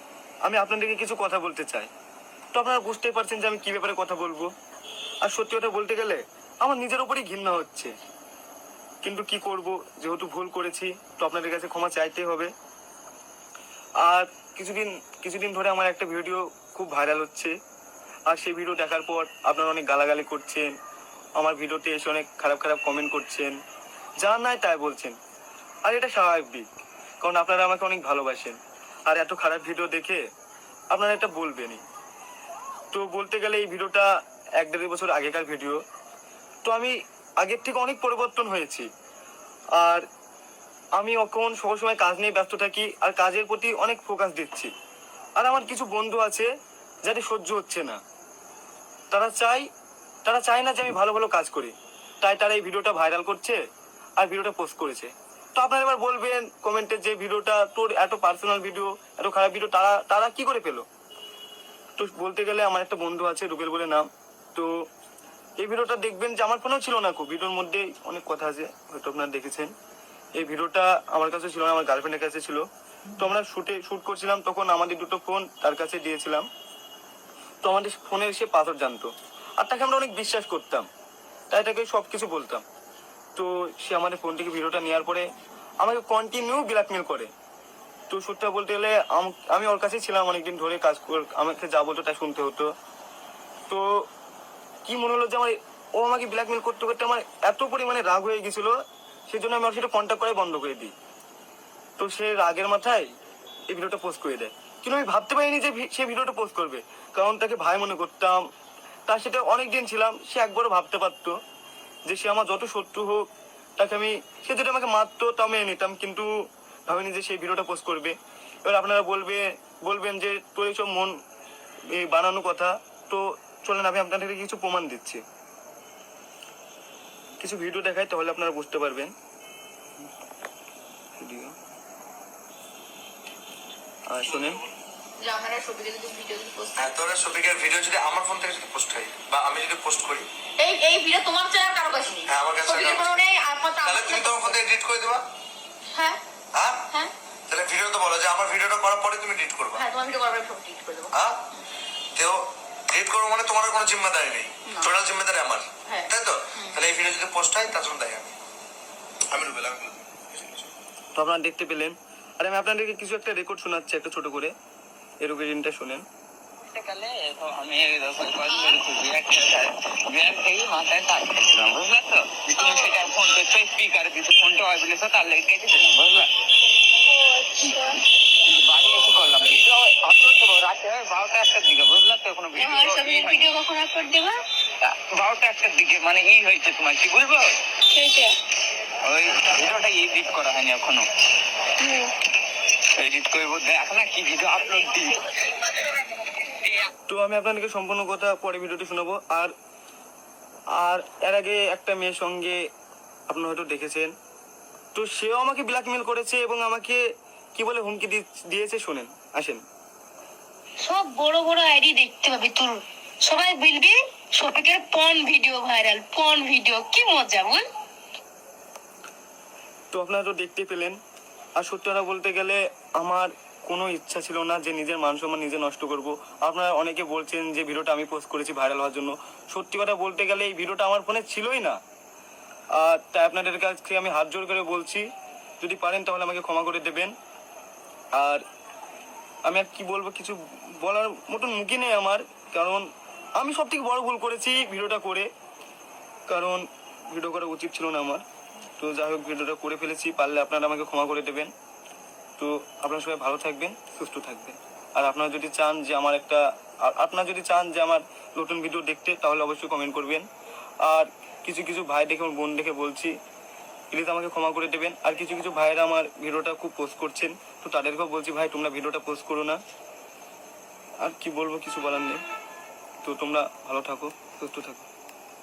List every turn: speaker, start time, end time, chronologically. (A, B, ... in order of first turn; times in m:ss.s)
0:00.4-0:01.9 A
0:02.5-0:04.5 A
0:05.2-0:07.9 A
0:09.0-0:12.5 A
0:14.0-0:17.5 A
0:18.3-0:20.7 A
0:21.4-0:23.6 A
0:24.2-0:25.2 A
0:25.8-0:26.7 A
0:27.2-0:30.2 A
0:30.9-0:31.8 A
0:32.9-0:34.1 A
0:34.6-0:35.8 A
0:36.6-0:38.9 A
0:39.8-0:40.0 A
0:41.0-0:44.7 A
0:45.4-0:46.5 A
0:47.0-0:48.0 A
0:49.1-0:49.7 A
0:50.2-0:53.6 A
0:54.2-1:00.8 A
1:02.0-1:04.7 A
1:05.6-1:09.7 A
1:10.4-1:12.6 A
1:13.2-1:16.5 A
1:17.6-1:20.9 A
1:21.5-1:22.6 A
1:23.4-1:25.3 A
1:25.8-1:27.3 A
1:28.1-1:32.7 A
1:34.9-1:38.7 A
1:39.3-1:40.9 A
1:42.0-1:43.1 A
1:43.7-1:48.4 A
1:49.1-1:51.3 A
1:52.1-1:53.3 A
1:53.8-1:56.3 A
1:56.9-2:01.2 A
2:01.9-2:05.2 A
2:07.4-2:09.1 A
2:11.2-2:11.5 A
2:14.1-2:14.6 A
2:15.2-2:16.9 B
2:16.8-2:20.3 C
2:20.6-2:24.6 B
2:22.3-2:23.2 C
2:23.8-2:25.2 C
2:25.9-2:26.2 B
2:26.5-2:26.8 C
2:27.5-2:29.8 C
2:29.8-2:31.7 B
2:31.1-2:31.4 C
2:32.1-2:38.3 C
2:34.7-2:34.9 B
2:35.9-2:36.8 B
2:39.3-2:40.7 C
2:41.2-2:44.5 A
2:45.2-2:46.0 A
2:46.7-2:56.3 D
2:57.1-2:58.0 E
2:58.4-3:03.5 D
3:02.5-3:04.4 E
3:04.8-3:07.6 D
3:07.9-3:08.3 E
3:09.0-3:11.0 D
3:11.8-3:12.1 E
3:13.0-3:15.2 D
3:17.1-3:19.5 A
3:20.8-3:22.6 A
3:23.3-3:24.1 A
3:24.9-3:27.0 A
3:27.5-3:29.6 A
3:30.8-3:37.6 E
3:39.9-3:41.0 A
3:41.6-3:51.8 A
3:52.8-3:55.1 A
3:55.6-3:57.1 A
3:58.2-3:58.4 A
3:59.4-4:05.3 A
4:06.3-4:08.2 A
4:08.8-4:11.5 A
4:12.4-4:20.3 A
4:20.8-4:23.1 A
4:23.9-4:29.6 A
4:31.0-4:32.2 A
4:33.0-4:34.9 A